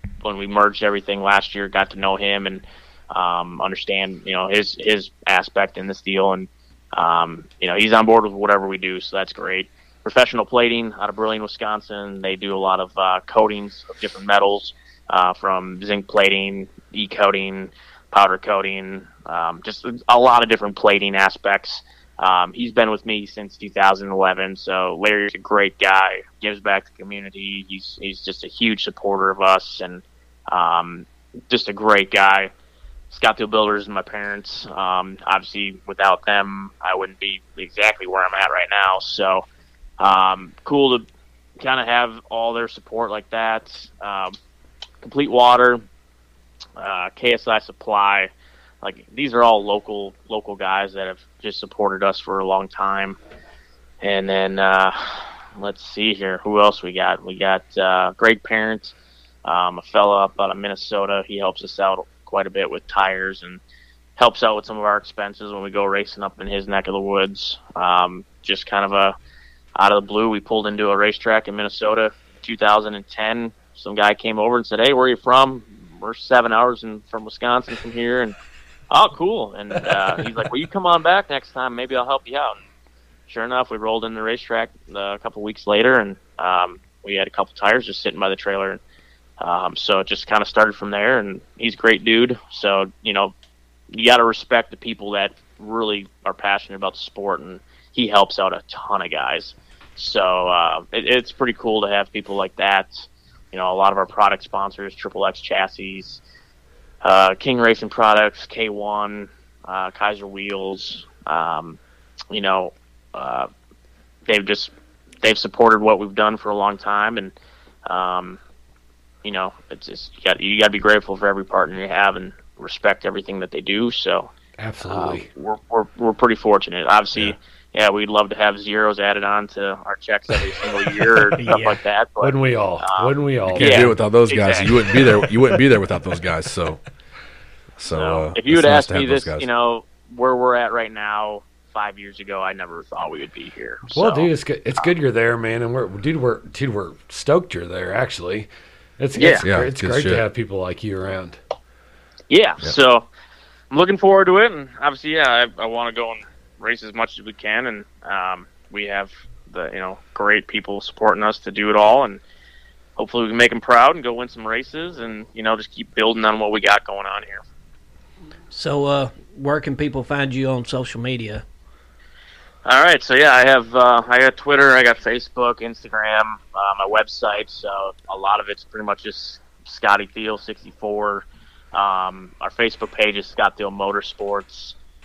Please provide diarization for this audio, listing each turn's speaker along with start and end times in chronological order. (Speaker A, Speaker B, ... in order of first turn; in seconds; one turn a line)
Speaker A: 0.2-32.5
Speaker A: 33.1-39.4
Speaker A: 40.0-41.0
Speaker A: 41.6-44.4
Speaker A: 45.0-45.8
Speaker A: 46.8-48.3
Speaker A: 48.8-53.2
Speaker A: 54.0-58.9
Speaker A: 59.4-63.6
Speaker A: 64.2-69.1
Speaker A: 69.7-78.3
Speaker A: 78.9-82.6
Speaker A: 83.3-88.8
Speaker A: 89.4-93.3
Speaker A: 93.9-106.2
Speaker A: 107.0-111.8
Speaker A: 112.3-113.5
Speaker A: 114.3-117.3
Speaker A: 117.8-118.4
Speaker A: 119.2-124.3
Speaker B: 124.6-125.3
Speaker A: 124.9-134.9
Speaker C: 131.4-131.8
Speaker B: 132.2-134.0
Speaker D: 133.5-136.8
Speaker D: 137.8-139.5
Speaker A: 137.9-144.3
Speaker B: 143.9-148.5
Speaker B: 149.0-151.4
Speaker A: 149.1-149.4
Speaker D: 149.4-150.2
Speaker A: 152.3-153.1
Speaker A: 153.7-162.2
Speaker A: 163.0-167.4
Speaker C: 168.5-171.4
Speaker A: 172.6-184.8